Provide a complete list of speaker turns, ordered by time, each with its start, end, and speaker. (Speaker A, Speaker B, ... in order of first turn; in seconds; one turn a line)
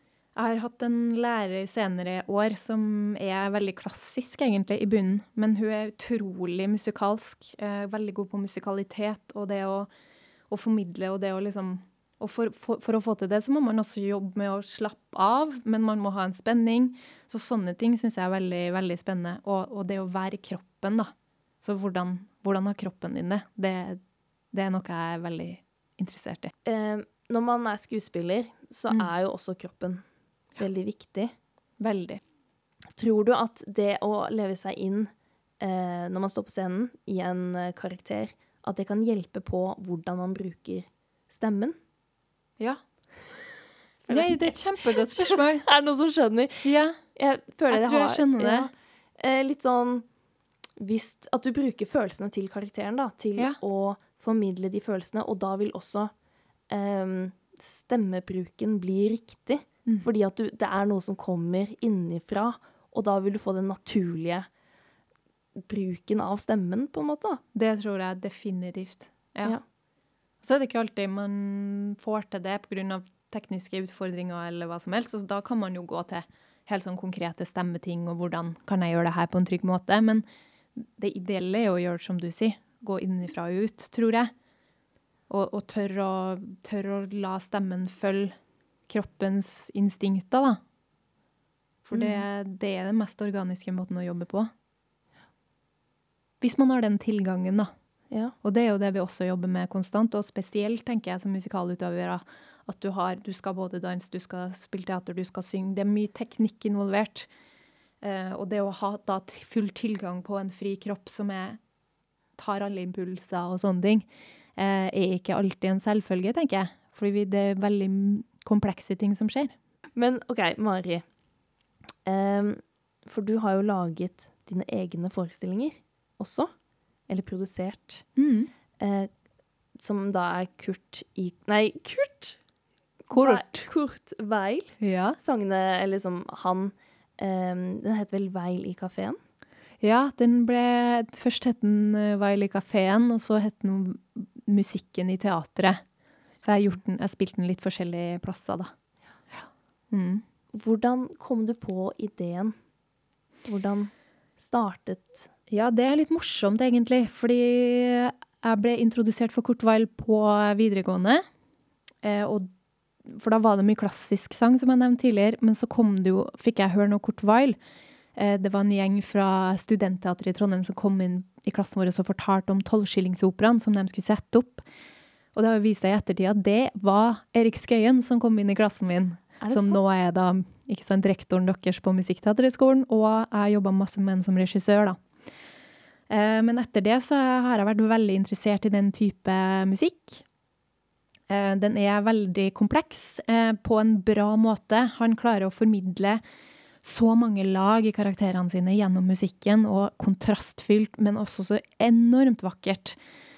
Speaker A: 0.3-9.9
Speaker A: 10.5-24.0
Speaker A: 24.5-26.5
Speaker B: 26.6-30.0
Speaker B: 30.6-31.3
Speaker A: 31.8-32.2
Speaker B: 33.0-41.8
Speaker B: 44.1-50.1
Speaker A: 44.1-45.7
Speaker A: 46.6-47.0
Speaker A: 47.7-48.7
Speaker B: 50.8-56.1
Speaker B: 56.7-64.5
Speaker B: 65.6-67.4
Speaker A: 67.5-69.6
Speaker A: 70.4-80.2
Speaker A: 80.8-84.3
Speaker A: 85.3-88.3
Speaker A: 88.9-90.6
Speaker A: 91.9-94.5
Speaker B: 91.9-92.2
Speaker A: 96.4-97.7
Speaker A: 98.4-107.3
Speaker A: 108.0-111.6
Speaker A: 112.4-119.5
Speaker B: 120.0-121.0
Speaker B: 122.0-126.5
Speaker B: 127.1-128.1
Speaker A: 128.2-128.5
Speaker B: 128.8-129.1
Speaker B: 129.8-132.4
Speaker A: 133.1-133.7
Speaker B: 133.1-139.2
Speaker A: 134.8-135.2
Speaker A: 139.8-145.8
Speaker A: 146.4-148.7
Speaker A: 149.3-150.2
Speaker B: 150.5-152.6
Speaker B: 153.4-155.3
Speaker A: 155.5-161.2
Speaker A: 162.0-162.5
Speaker A: 163.1-167.6
Speaker A: 168.2-174.6
Speaker A: 175.3-185.0
Speaker B: 179.4-179.8
Speaker A: 186.1-190.2
Speaker A: 191.3-196.2
Speaker A: 196.8-203.0